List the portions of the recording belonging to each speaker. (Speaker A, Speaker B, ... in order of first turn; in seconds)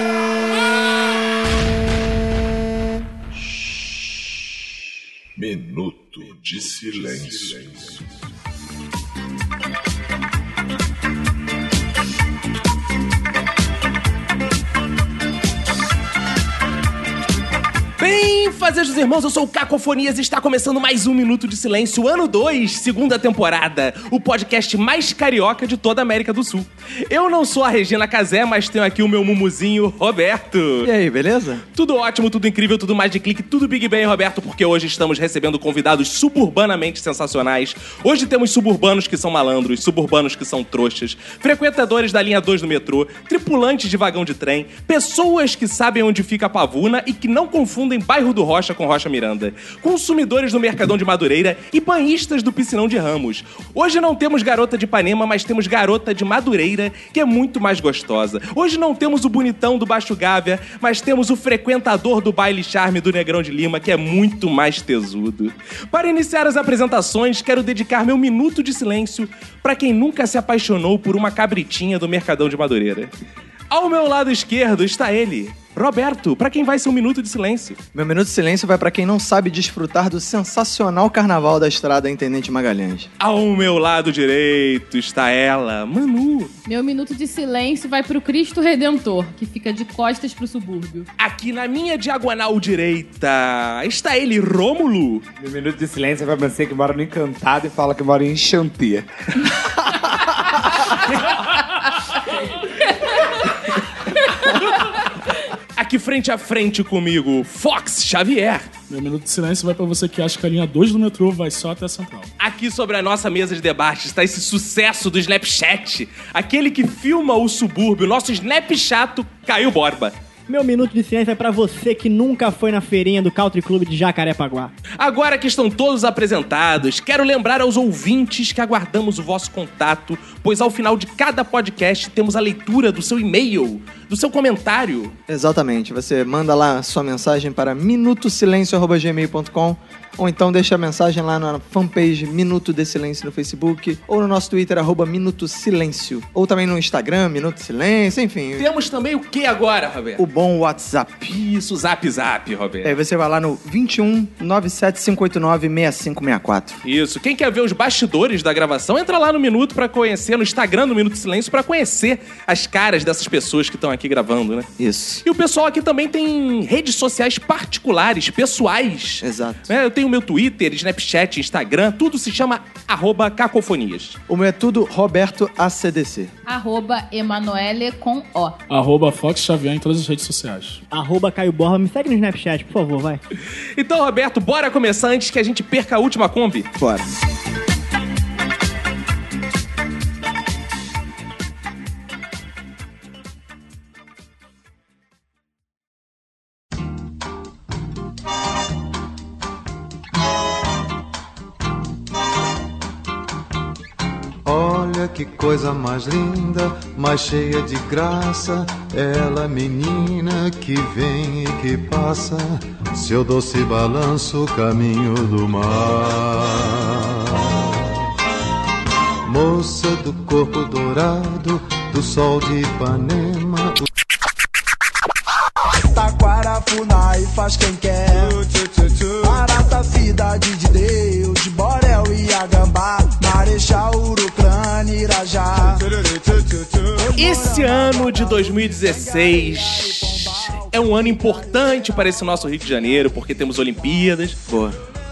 Speaker A: 5.4-8.1
Speaker B: 18.0-30.9, 31.7-73.1, 73.7-77.8, 83.2-86.5, 91.2-95.3, 105.8-108.7, 112.4-120.2, 125.0-135.1, 148.6-150.2, 151.3-153.0, 156.8-164.7, 165.2-174.2, 183.8-186.7, 237.1-244.4
Speaker C: 30.8-31.6, 77.9-83.1, 135.3-148.7, 150.2-151.4, 152.8-156.8, 164.8-165.2, 169.2-169.7, 174.3-176.3, 186.8-187.1, 244.5-244.8
Speaker D: 86.7-91.1, 102.8-103.6, 104.3-104.6, 176.5-178.6
Speaker E: 95.4-99.1
Speaker F: 108.9-112.3, 178.7-180.8
Speaker G: 120.5-124.7, 180.9-183.2
Speaker H: 204.4-217.9, 219.2-223.8
Speaker I: 225.8-228.5, 229.0-240.6